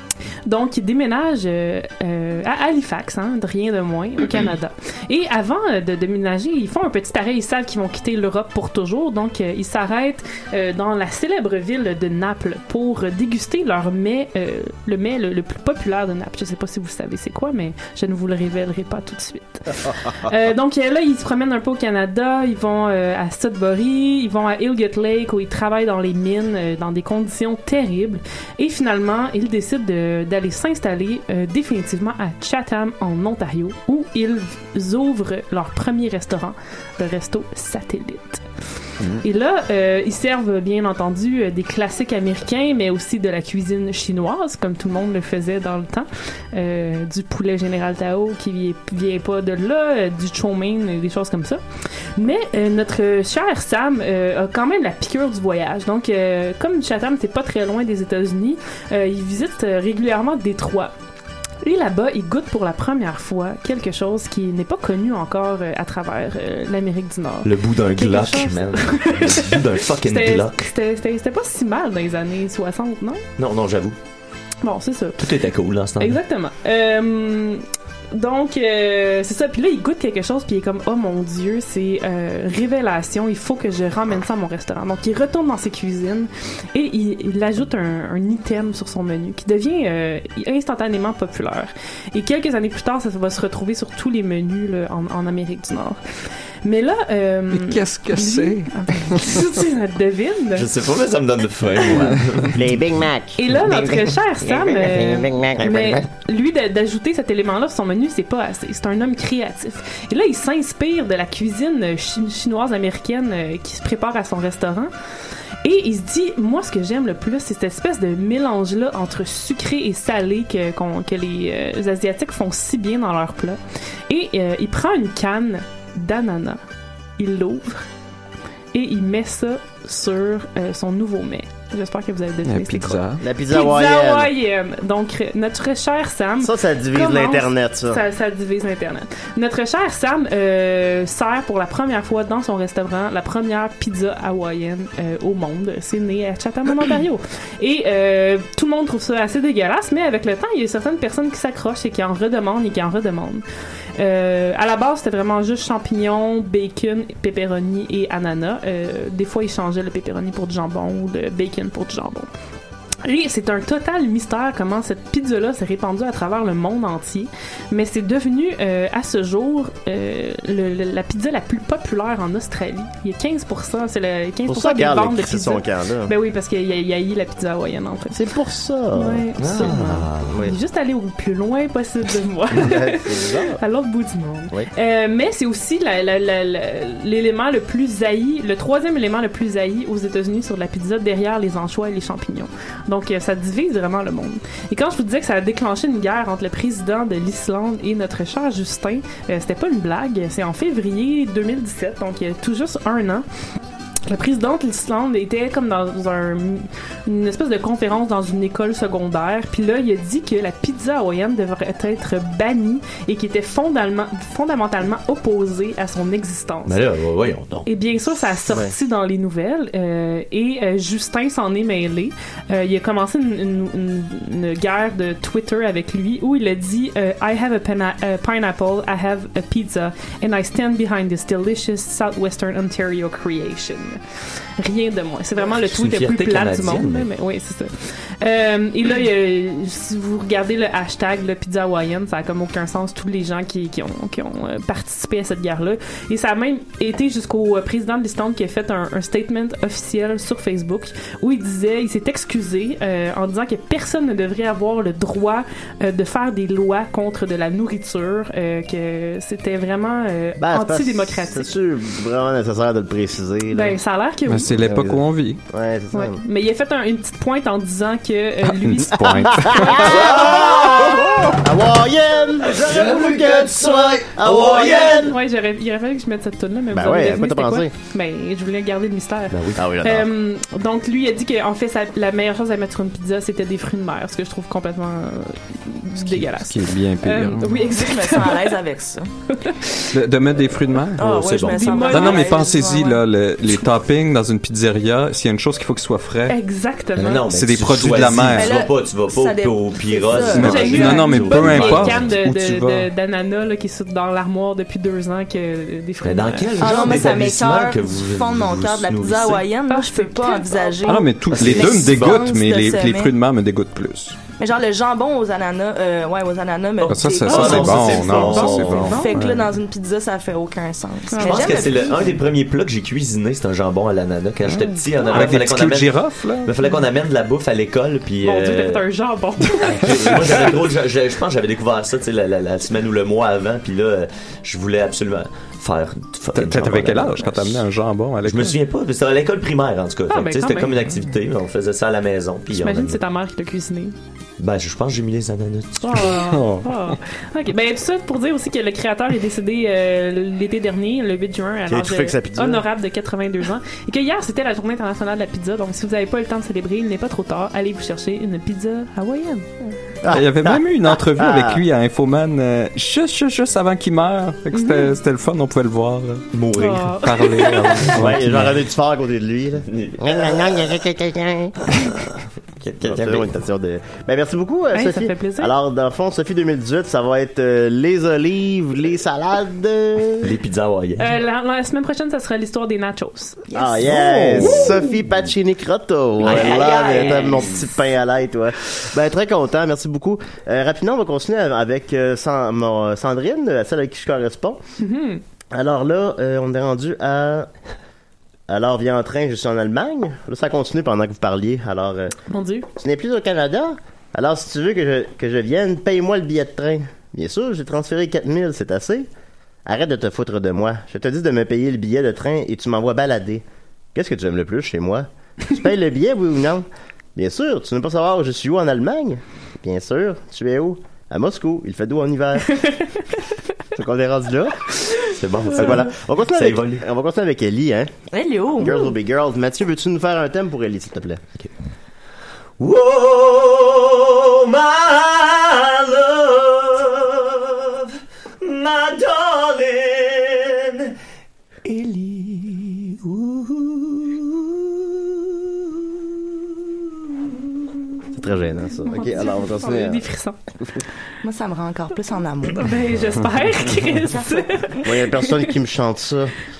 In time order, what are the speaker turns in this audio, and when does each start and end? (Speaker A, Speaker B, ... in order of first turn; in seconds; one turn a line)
Speaker A: 0.5-38.4
Speaker A: 39.2-51.6
Speaker A: 52.1-60.9
Speaker A: 61.6-73.2
Speaker B: 67.4-70.5
Speaker B: 73.4-74.0
Speaker A: 74.6-75.2
Speaker B: 75.2-76.2
Speaker A: 76.0-96.0
Speaker A: 96.6-100.7
Speaker C: 97.5-99.5
Speaker B: 100.5-103.0
Speaker D: 102.5-106.0
Speaker A: 103.3-114.9
Speaker A: 115.6-123.6
Speaker A: 124.1-126.6
Speaker A: 127.2-127.8
Speaker A: 128.7-153.4
Speaker C: 132.4-133.2
Speaker D: 133.2-134.3
Speaker D: 136.4-138.0
Speaker A: 154.0-162.3
Speaker A: 163.0-178.2
Speaker D: 174.5-176.1
Speaker D: 178.1-179.3
Speaker A: 178.9-203.2
Speaker B: 179.4-180.4
Speaker D: 180.3-180.6
Speaker D: 182.5-183.6
Speaker A: 204.1-216.8
Speaker B: 216.7-217.7
Speaker A: 217.7-234.0
Speaker A: 234.6-261.5
Speaker B: 235.4-237.1
Speaker D: 260.4-263.8
Speaker A: 263.5-264.5
Speaker C: 264.3-265.4
Speaker D: 264.5-266.2
Speaker A: 265.9-270.0
Speaker C: 268.5-269.9
Speaker D: 269.0-275.1
Speaker B: 269.9-271.4
Speaker B: 272.4-275.1
Speaker A: 274.9-288.5
Speaker D: 276.7-277.7
Speaker B: 279.3-279.6
Speaker D: 279.6-280.1
Speaker C: 286.0-287.6
Speaker E: 287.6-289.1
Speaker A: 289.3-289.7
Speaker C: 289.9-291.2
Speaker E: 290.9-293.7
Speaker B: 291.0-291.8
Speaker A: 291.5-292.8
Speaker C: 291.7-296.4
Speaker A: 296.3-297.2
Speaker B: 297.0-302.1
Speaker C: 297.2-298.6
Speaker E: 298.3-301.7
Speaker C: 300.3-302.9
Speaker A: 300.4-306.9
Speaker B: 306.0-309.4
Speaker E: 306.6-313.1
Speaker A: 309.7-311.0
Speaker C: 310.9-314.2
Speaker B: 311.3-312.2
Speaker E: 314.4-322.2
Speaker B: 316.8-319.0
Speaker C: 316.9-319.5
Speaker A: 317.3-319.2
Speaker A: 321.1-321.8
Speaker B: 321.2-328.8
Speaker C: 324.5-326.5
Speaker A: 328.2-330.2
Speaker B: 329.6-337.6
Speaker C: 336.3-338.6
Speaker B: 338.2-343.0
Speaker A: 340.1-340.7
Speaker A: 342.5-343.9
Speaker B: 344.4-346.1
Speaker A: 345.8-359.8
Speaker C: 346.1-346.9
Speaker D: 351.7-352.6
Speaker D: 360.0-361.6
Speaker C: 360.1-366.2
Speaker A: 364.5-364.9
Speaker B: 366.3-368.2
Speaker A: 366.6-367.9
Speaker C: 367.0-368.5
Speaker D: 368.0-371.6
Speaker B: 369.7-370.8
Speaker B: 371.7-372.1
Speaker B: 372.6-373.3
Speaker D: 372.8-380.4
Speaker A: 374.7-375.5
Speaker B: 380.2-381.1
Speaker A: 381.0-383.4
Speaker E: 383.5-384.8
Speaker D: 383.5-394.6
Speaker B: 384.4-384.7
Speaker B: 386.2-387.6
Speaker E: 386.3-387.4
Speaker A: 394.8-395.2
Speaker D: 395.5-397.5
Speaker D: 398.5-402.1
Speaker A: 402.3-402.7
Speaker D: 402.8-409.1
Speaker D: 409.6-422.7
Speaker D: 423.7-424.6
Speaker B: 425.1-426.8
Speaker D: 425.5-427.9
Speaker E: 428.1-428.8
Speaker D: 428.6-431.2
Speaker B: 432.6-437.9
Speaker B: 438.4-440.9
Speaker B: 441.6-444.3
Speaker D: 448.1-450.0
Speaker A: 448.9-450.4
Speaker E: 451.2-452.7
Speaker A: 452.5-455.5
Speaker E: 454.0-454.6
Speaker D: 454.8-456.3